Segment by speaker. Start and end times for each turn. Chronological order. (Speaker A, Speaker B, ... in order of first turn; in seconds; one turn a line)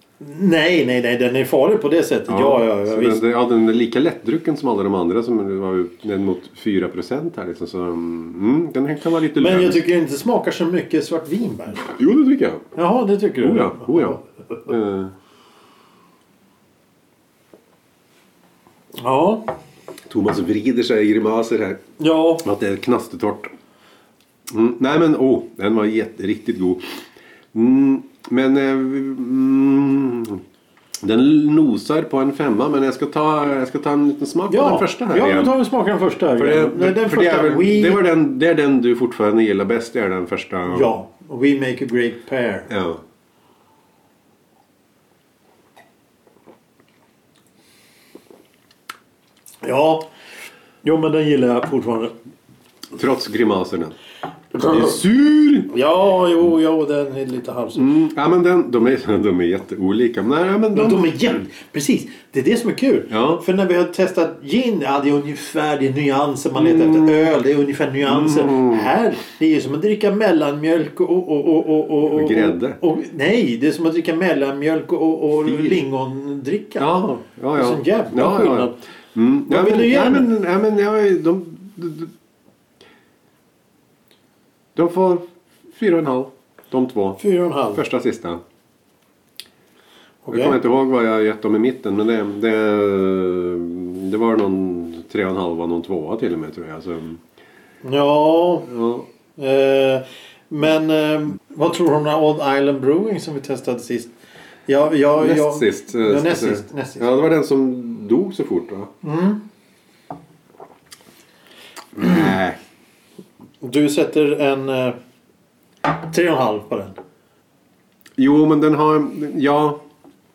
Speaker A: 0.2-3.2
Speaker B: 2.3-9.8
Speaker A: 9.3-11.9
Speaker B: 11.8-12.7
Speaker A: 12.7-14.2
Speaker B: 13.4-15.1
Speaker A: 19.0-19.5
Speaker B: 20.1-21.8
Speaker A: 22.0-22.4
Speaker B: 22.4-23.5
Speaker B: 24.5-30.4
Speaker B: 31.0-35.5
Speaker A: 34.5-38.0
Speaker B: 36.4-40.9
Speaker A: 40.7-42.7
Speaker B: 42.7-43.0
Speaker A: 49.6-50.0
Speaker A: 50.8-52.1
Speaker B: 52.9-53.9
Speaker A: 54.5-55.0
Speaker B: 54.6-55.7
Speaker A: 55.7-57.9
Speaker B: 57.7-61.1
Speaker A: 60.7-76.9
Speaker B: 63.1-63.4
Speaker B: 66.5-67.3
Speaker B: 68.0-68.9
Speaker B: 72.1-72.8
Speaker B: 75.4-75.8
Speaker B: 76.8-82.1
Speaker A: 77.5-78.8
Speaker A: 79.5-80.3
Speaker B: 84.7-87.2
Speaker A: 87.2-87.8
Speaker B: 87.7-88.4
Speaker A: 90.2-90.5
Speaker B: 90.3-97.2
Speaker A: 97.8-98.7
Speaker B: 98.7-99.1
Speaker A: 99.4-104.1
Speaker A: 104.7-107.1
Speaker B: 105.2-108.9
Speaker A: 109.0-109.4
Speaker B: 112.0-112.6
Speaker A: 113.6-115.0
Speaker A: 115.8-117.0
Speaker B: 118.2-119.8